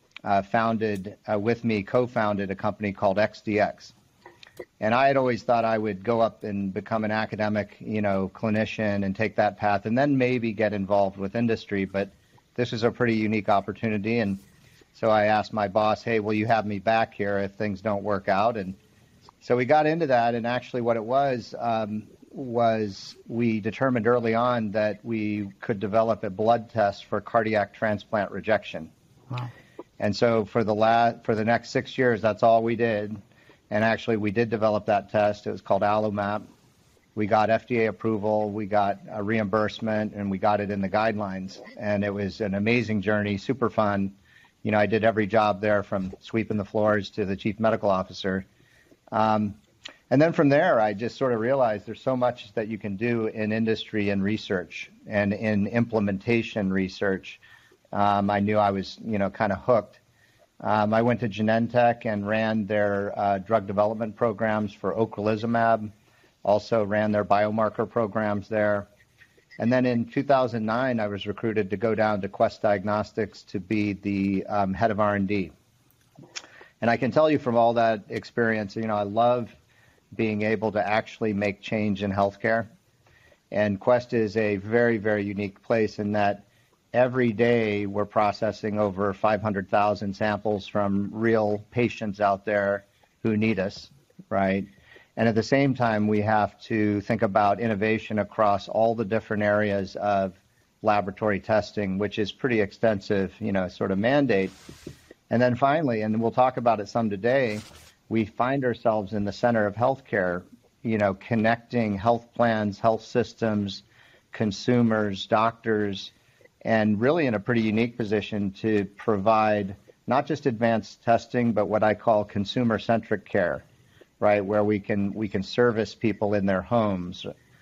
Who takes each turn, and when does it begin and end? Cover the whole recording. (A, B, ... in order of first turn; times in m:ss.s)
0:00.2-0:03.9 A
0:04.8-0:14.4 A
0:14.9-0:18.8 A
0:19.4-0:28.9 A
0:30.0-0:33.2 A
0:33.7-0:36.4 A
0:37.2-0:48.4 A
0:49.1-0:49.6 A
0:50.1-0:57.4 A
0:57.9-1:00.0 A
1:00.6-1:05.9 A
1:06.4-1:08.9 A
1:09.6-1:15.5 A
1:16.8-1:19.5 A
1:20.1-1:22.7 A
1:23.5-1:44.5 A
1:45.3-1:56.1 A
1:56.6-2:03.6 A
2:04.2-2:07.3 A